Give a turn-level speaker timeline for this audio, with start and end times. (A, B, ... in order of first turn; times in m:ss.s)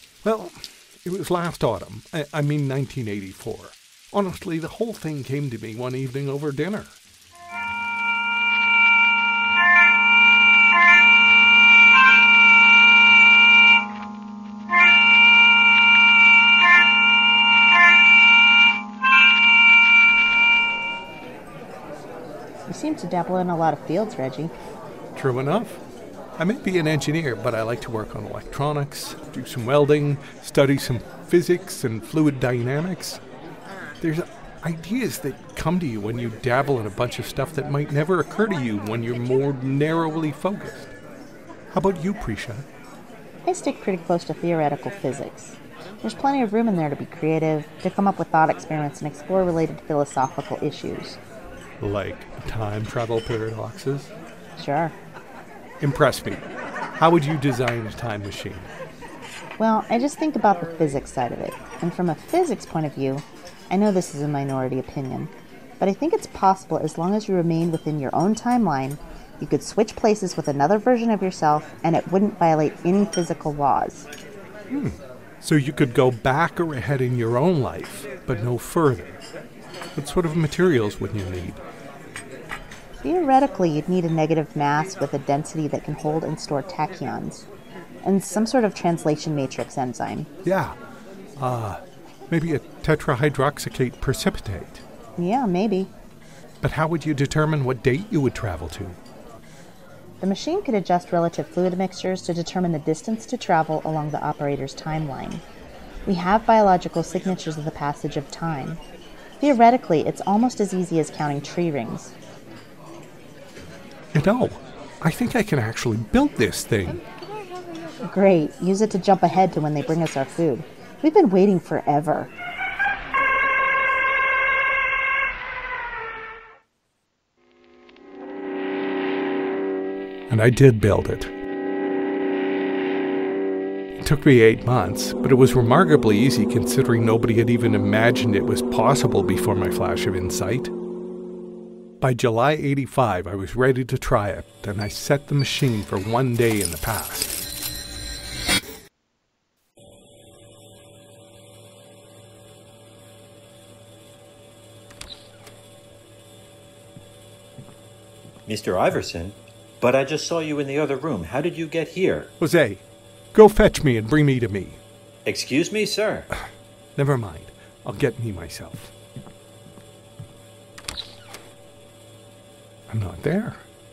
0:00.2-0:07.0 A
0:22.6-0:24.5 B
0:25.1-0:25.8 A
0:26.4-0:33.2 A
0:34.0-0:40.9 A
0:41.7-0:42.6 A
0:43.4-0:51.2 B
0:51.8-0:54.1 A
0:54.6-0:54.9 B
0:55.8-0:58.7 A
0:59.6-1:14.1 B
1:14.7-1:19.2 A
1:20.0-1:21.6 A
1:23.0-1:27.4 B
1:28.0-1:30.3 B
1:30.4-1:30.8 A
1:31.4-1:34.8 A
1:35.2-1:35.9 B
1:36.6-1:39.0 A
1:40.2-1:45.4 B
1:46.0-1:48.8 B
1:49.4-1:52.1 B
1:54.1-1:57.0 A
1:58.0-2:02.3 B
2:10.3-2:11.3 A
2:14.0-2:20.7 A
2:22.0-2:27.4 A
2:38.4-2:42.3 C
2:42.4-2:44.8 A
2:45.2-2:46.3 C
2:47.0-2:48.9 A
2:52.9-2:53.6 A